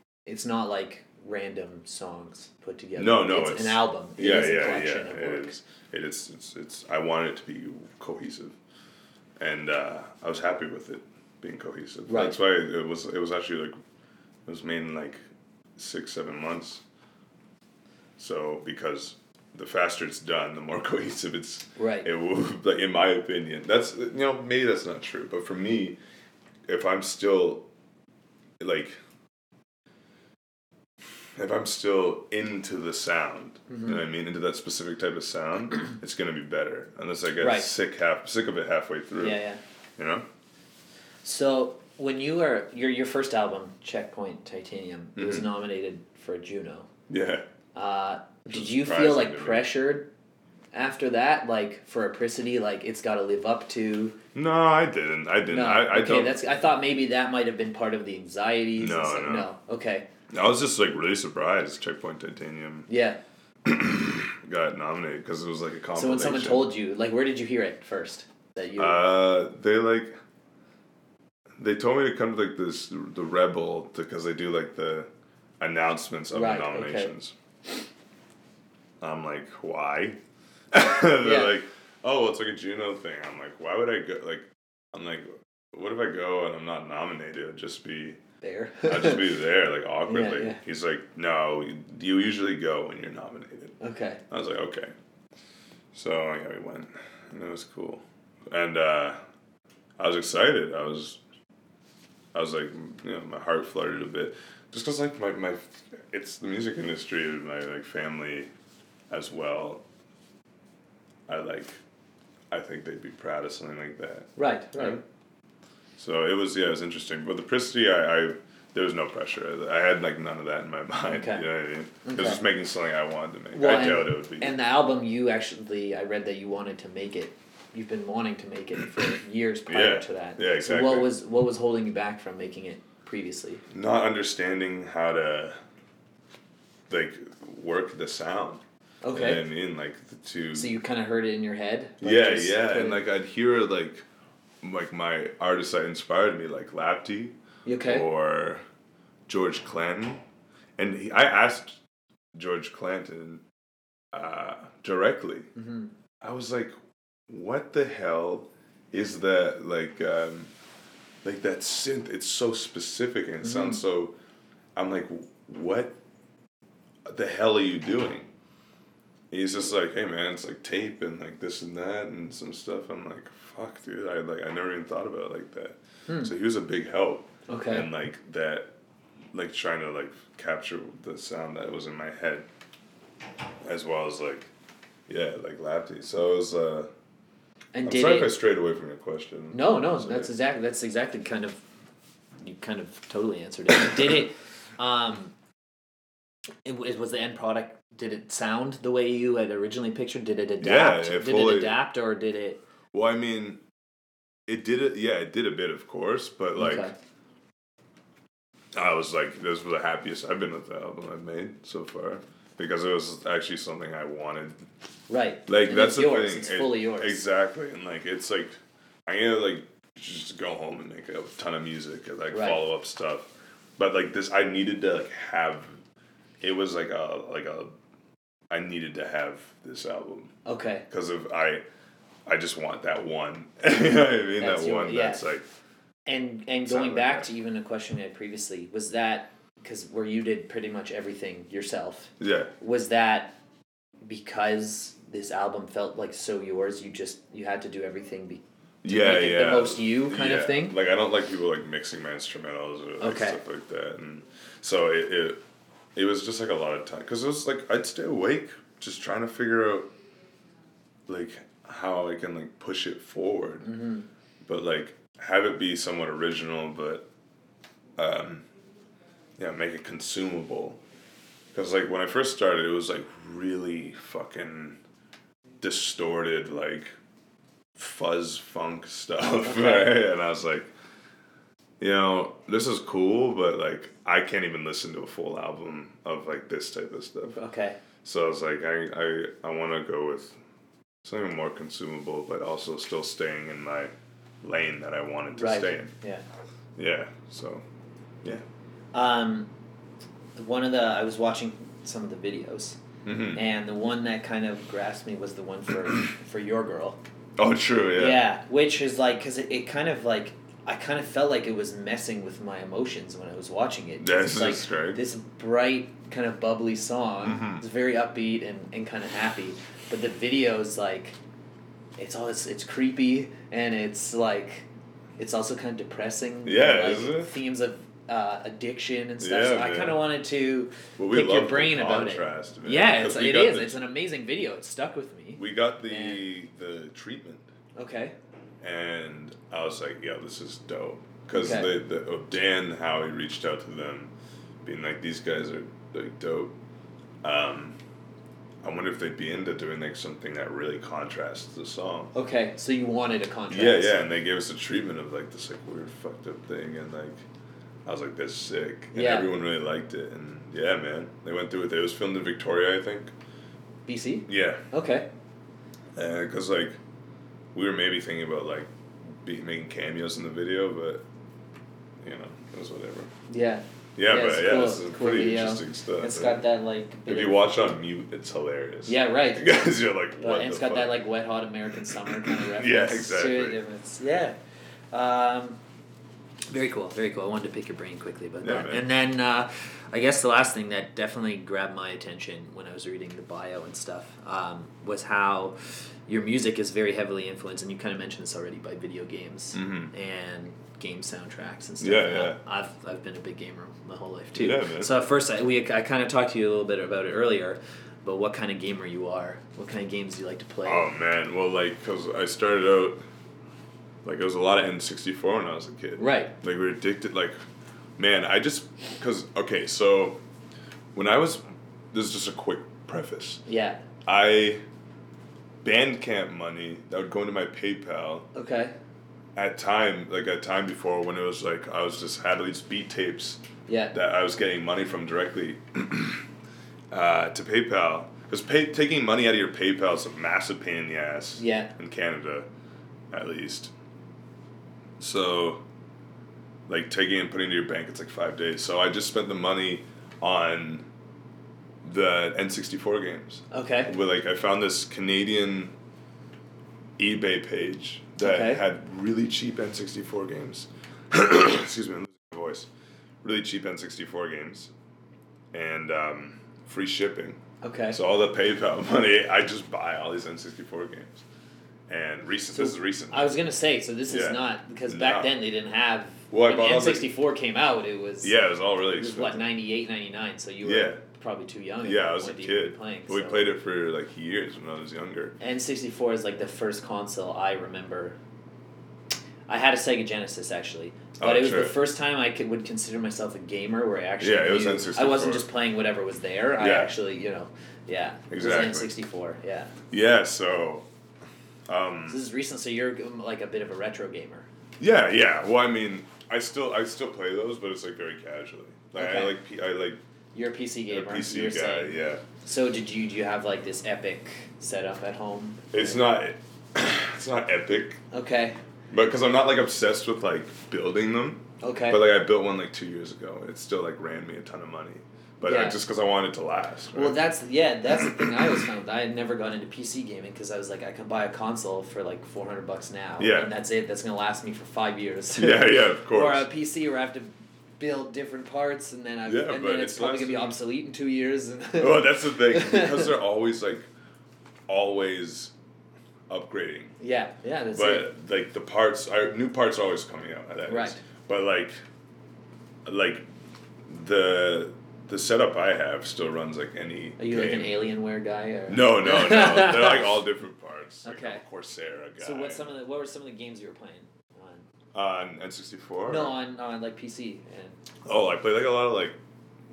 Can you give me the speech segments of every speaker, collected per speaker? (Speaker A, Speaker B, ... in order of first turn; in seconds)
Speaker A: 0.2-5.6, 12.1-12.3, 21.8-22.1, 33.7-34.0, 37.4-37.7, 39.2-39.6, 41.2-46.9, 47.7-50.1, 50.7-54.1, 55.5-60.0, 62.9-63.2, 65.9-69.0, 76.3-77.1, 81.2-81.5, 88.4-89.3, 90.1-90.6, 93.8-94.2, 114.3-115.0, 121.1-121.4, 122.0-122.4, 123.5-133.6, 139.0-139.4, 140.5-143.0, 147.6-148.1, 155.6-155.9, 163.4-163.8, 176.1-176.3, 177.5-177.9, 187.7-188.3, 189.5-191.6, 192.4-195.3, 196.6-202.6, 206.6-206.9, 215.1-217.2, 222.3-222.6, 230.4-230.8, 234.4-235.3, 236.1-243.4, 244.0-250.8, 253.0-253.4, 263.6-264.1, 279.4-280.0, 287.3-287.8, 295.3-296.2, 298.9-299.5, 300.4-302.8, 303.3-307.0, 308.0-321.2, 322.0-324.6, 325.2-336.2, 337.8-338.1, 341.3-341.7, 352.1-354.0, 358.9-359.3, 363.9-365.1, 373.3-377.6, 378.9-379.6, 380.2-384.4, 384.9-385.6, 386.5-395.6, 396.1-410.9, 416.0-416.3, 423.4-423.8, 428.3-428.7, 433.7-433.9, 441.4-441.7, 453.5-453.9, 458.2-458.6, 467.6-468.0, 472.5-478.3, 478.9-483.5, 485.4-488.2, 489.5-499.7, 502.1-504.5, 508.9-509.4, 510.3-516.0, 518.1-518.6, 521.6-522.0, 525.4-525.8, 526.9-543.1, 547.0-548.1, 550.7-551.0, 557.2-560.2, 561.0-561.4, 562.2-564.6, 566.0-567.8
Speaker B: 3.0-8.6, 9.4-13.8, 14.4-15.2, 15.8-16.8, 18.2-26.0, 26.7-27.7, 28.6-29.0, 31.3-39.4, 40.0-40.2, 45.1-45.5, 47.1-47.5, 48.5-49.7, 54.3-56.4, 58.8-59.5, 60.3-62.9, 63.6-66.7, 68.8-70.1, 71.6-75.1, 75.6-77.3, 79.0-80.2, 80.7-88.2, 88.8-93.8, 94.3-94.9, 95.9-99.2, 100.0-101.2, 102.3-108.5, 109.1-109.8, 111.3-111.8, 112.5-115.0, 116.0-124.6, 129.7-131.1, 133.7-135.6, 136.9-140.8, 142.0-144.0, 144.6-148.6, 149.3-150.2, 150.8-151.8, 152.3-153.4, 154.1-155.5, 156.2-156.7, 157.3-160.5, 161.2-164.1, 164.7-166.0, 167.0-168.3, 169.3-178.7, 179.3-182.5, 183.6-184.5, 185.1-186.9, 187.8-190.3, 200.6-201.8, 202.9-203.6, 204.5-206.9, 208.7-214.6, 215.5-225.8, 226.4-227.7, 228.5-230.3, 230.9-231.6, 232.2-235.4, 236.7-237.3, 242.2-242.5, 248.8-255.4, 255.9-259.9, 261.1-263.7, 264.4-267.1, 268.0-268.5, 269.4-270.8, 271.5-274.8, 275.6-276.9, 277.8-280.7, 281.8-287.4, 288.0-290.4, 291.0-295.9, 296.8-297.6, 303.0-303.4, 307.4-308.2, 314.0-315.0, 317.2-317.6, 326.4-327.3, 329.2-330.0, 331.0-333.8, 335.4-337.5, 338.6-344.1, 344.6-346.5, 347.2-347.8, 348.6-352.1, 353.5-357.2, 357.8-363.1, 364.3-364.7, 365.9-366.8, 367.5-371.0, 372.0-373.1, 373.9-376.4, 377.1-381.0, 381.8-383.6, 388.4-388.9, 399.5-399.9, 401.8-402.4, 404.3-404.9, 410.6-413.0, 414.0-417.4, 418.0-420.2, 420.9-423.4, 424.0-424.6, 425.6-428.3, 429.3-436.2, 436.9-442.5, 443.1-443.7, 445.0-445.6, 446.7-450.9, 451.8-455.7, 457.0-462.7, 463.2-464.7, 465.5-467.4, 467.9-471.2, 471.9-473.4, 474.1-475.4, 476.3-477.1, 478.2-479.5, 480.6-481.0, 481.8-485.4, 491.2-491.8, 494.2-495.4, 496.6-496.9, 498.3-498.9, 499.9-500.9, 501.7-502.2, 504.8-510.0, 510.9-512.2, 515.7-518.0, 518.9-527.2, 528.0-528.6, 533.2-533.5, 535.4-536.5, 539.2-540.6, 541.8-543.9, 544.7-545.5, 546.3-547.0, 547.7-551.8, 552.8-553.2, 553.9-557.7, 558.7-562.7, 564.9-566.4, 568.0-569.2